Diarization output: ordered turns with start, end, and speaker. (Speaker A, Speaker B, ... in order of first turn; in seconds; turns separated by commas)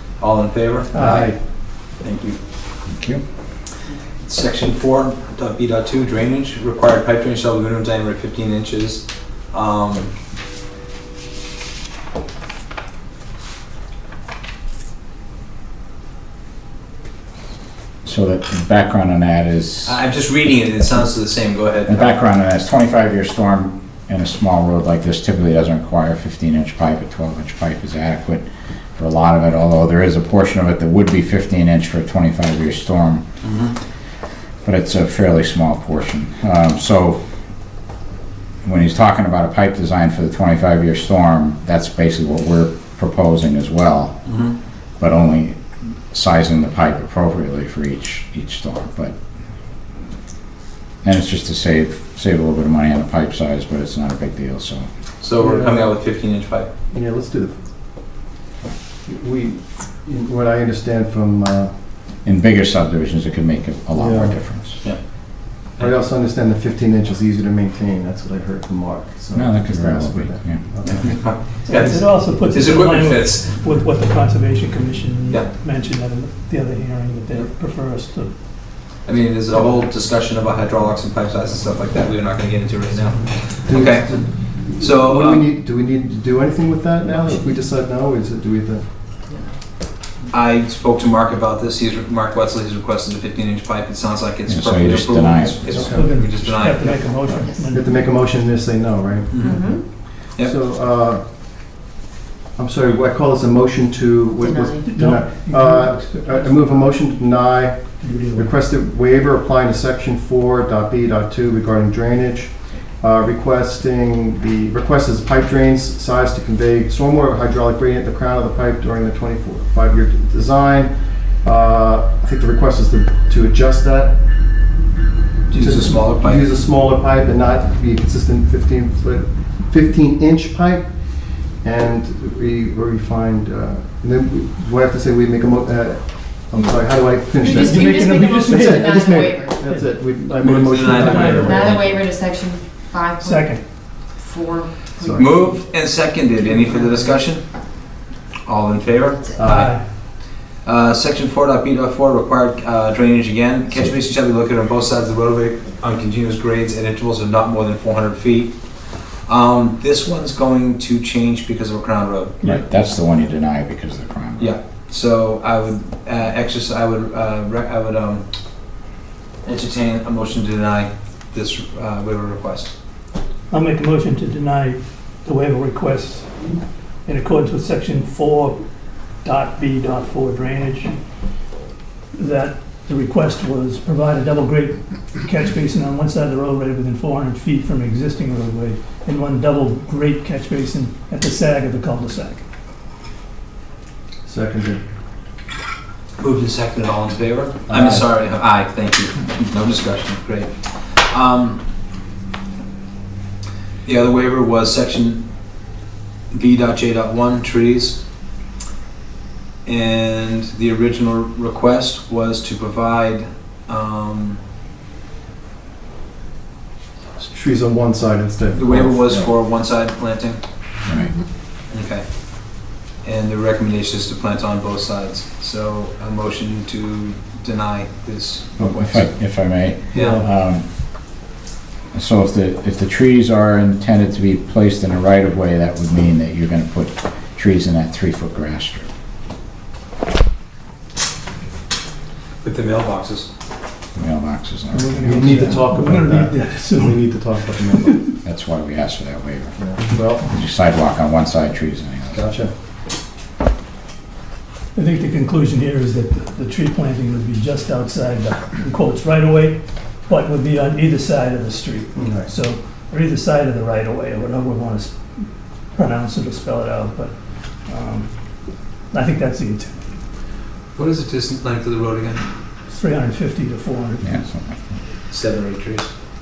Speaker A: 0.2-2.4, Speaker B: 0.9-1.4, Speaker C: 2.9-3.2, Speaker A: 4.2-10.1, Speaker C: 18.0-20.0, Speaker A: 19.8-22.2, Speaker C: 21.9-33.2, Speaker A: 33.4-33.7, Speaker C: 34.6-37.2, Speaker C: 38.6-44.2, Speaker A: 44.2-44.5, Speaker C: 45.0-49.1, Speaker C: 51.0-54.9, Speaker A: 55.2-56.7, Speaker B: 55.4-56.0, Speaker B: 56.9-57.6, Speaker B: 59.0-61.9, Speaker C: 62.2-64.8, Speaker B: 63.9-64.4, Speaker A: 64.8-66.0, Speaker B: 65.8-71.6, Speaker C: 69.3-71.0, Speaker A: 70.8-73.4, Speaker D: 71.6-78.4, Speaker A: 79.0-85.4, Speaker B: 79.5-79.9, Speaker B: 83.5-88.8, Speaker E: 89.2-89.5, Speaker A: 90.3-97.0, Speaker C: 94.5-96.1, Speaker B: 95.7-96.5, Speaker D: 95.9-97.8, Speaker E: 97.3-98.0, Speaker B: 97.3-99.6, Speaker A: 99.3-100.5, Speaker E: 99.4-100.0, Speaker B: 100.4-101.3, Speaker B: 102.5-124.6, Speaker E: 104.4-105.0, Speaker D: 104.8-106.9, Speaker D: 108.0-108.5, Speaker A: 125.5-126.4, Speaker B: 125.5-141.8, Speaker E: 136.6-139.7, Speaker D: 137.4-139.1, Speaker A: 140.4-142.1, Speaker D: 140.8-141.5, Speaker E: 141.3-147.2, Speaker D: 143.2-143.6, Speaker B: 145.0-145.3, Speaker A: 145.1-147.7, Speaker A: 148.4-158.6, Speaker E: 149.1-149.5, Speaker B: 149.3-149.7, Speaker D: 149.5-149.8, Speaker A: 159.2-162.4, Speaker C: 162.4-164.5, Speaker A: 164.4-168.2, Speaker A: 169.4-172.7, Speaker D: 173.5-176.3, Speaker D: 177.0-178.6, Speaker D: 179.2-181.0, Speaker D: 182.1-192.4, Speaker B: 194.2-194.8, Speaker A: 196.2-201.6, Speaker B: 197.7-198.0, Speaker A: 203.8-205.2, Speaker A: 206.3-208.0, Speaker A: 209.6-214.4, Speaker B: 217.2-219.3, Speaker A: 218.5-220.4, Speaker C: 220.8-221.1, Speaker A: 221.7-229.1, Speaker B: 228.6-228.9, Speaker C: 228.6-230.7, Speaker A: 229.9-230.2, Speaker B: 229.9-230.2, Speaker C: 231.9-238.9, Speaker A: 242.4-243.3, Speaker C: 243.9-245.7, Speaker B: 244.7-248.0, Speaker D: 244.9-248.1, Speaker C: 248.2-252.3, Speaker B: 249.6-250.4, Speaker B: 252.1-252.5, Speaker D: 254.7-269.8, Speaker B: 261.9-262.4, Speaker A: 270.7-272.2, Speaker D: 272.7-274.2, Speaker C: 274.0-274.8, Speaker A: 275.1-275.9